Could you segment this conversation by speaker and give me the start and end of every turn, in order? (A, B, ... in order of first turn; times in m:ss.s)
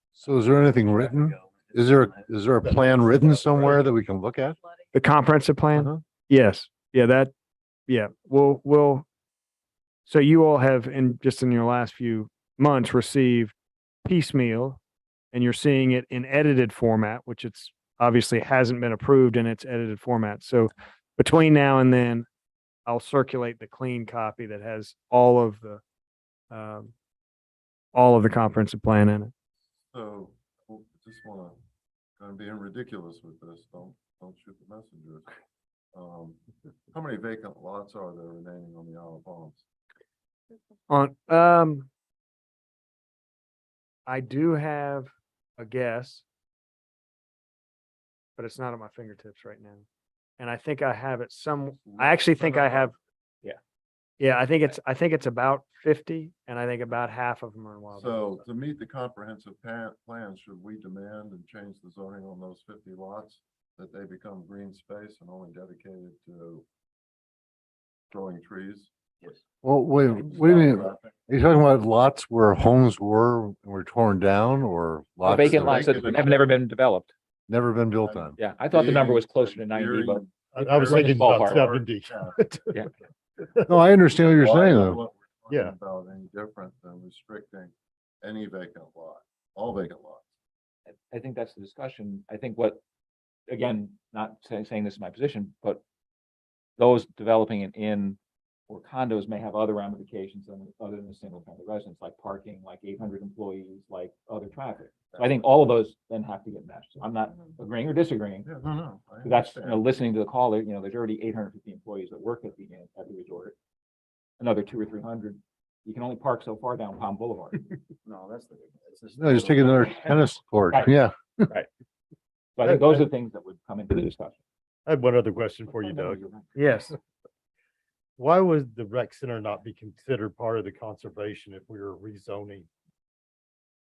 0:00.2-0:04.6 A
0:01.0-0:01.4 B
0:02.6-0:03.8 C
0:04.9-0:07.3 D
0:05.7-0:06.0 A
0:07.9-0:09.0 D
0:10.1-0:13.5 D
0:14.0-0:14.8 D
0:15.3-0:22.3 D
0:22.9-0:25.8 D
0:26.5-0:26.9 D
0:27.9-0:29.3 D
0:29.9-0:31.6 E
0:32.2-0:35.3 E
0:35.9-0:36.4 E
0:36.9-0:39.6 E
0:40.9-0:41.9 D
0:44.1-0:46.2 D
0:48.4-0:49.9 D
0:50.4-0:52.9 D
0:51.9-0:52.9 E
0:54.2-0:58.2 D
0:57.9-1:06.6 E
1:08.1-1:08.9 E
1:09.6-1:16.1 A
1:10.1-1:11.1 E
1:15.2-1:17.1 F
1:15.2-1:16.6 E
1:17.5-1:18.4 A
1:18.0-1:22.7 E
1:18.4-1:21.7 F
1:20.5-1:22.8 C
1:23.7-1:25.0 A
1:24.1-1:30.3 E
1:25.5-1:25.8 C
1:31.1-1:32.8 F
1:33.5-1:35.8 F
1:36.8-1:38.2 F
1:38.7-1:48.5 F
1:48.4-1:49.8 E
1:49.2-1:53.6 F
1:54.4-1:57.8 F
1:58.1-1:59.9 B
1:59.2-2:01.5 A
2:02.6-2:04.4 F
2:02.7-2:03.0 C
2:04.9-2:06.9 C
2:05.8-2:06.6 F
2:06.6-2:06.9 D
2:08.2-2:12.7 C